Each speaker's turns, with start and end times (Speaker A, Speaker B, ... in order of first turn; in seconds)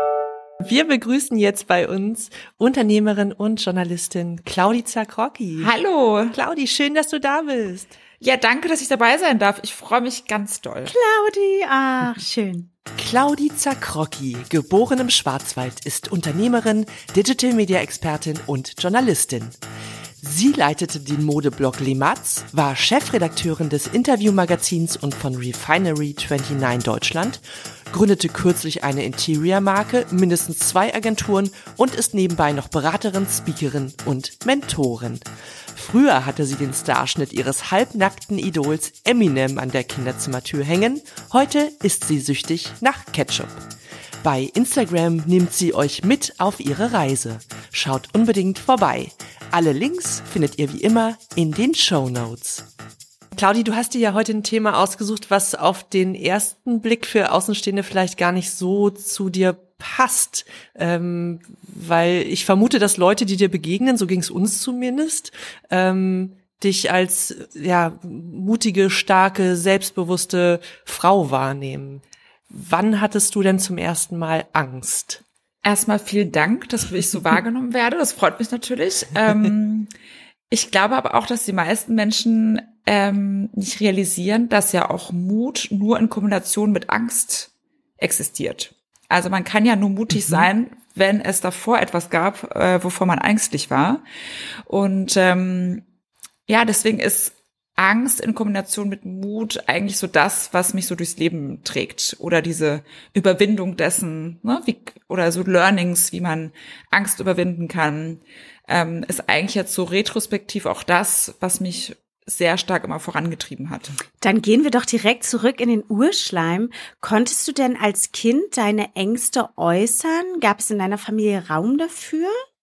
Speaker A: 0.6-5.7, 6.3-8.0, 13.0-19.6, 20.2-43.7, 44.2-52.7, 53.4-75.2
Speaker B: 5.6-6.4, 8.2-10.9, 75.6-79.9, 80.5-94.0, 94.7-95.8, 96.5-114.0
Speaker C: 10.9-12.7, 114.2-122.4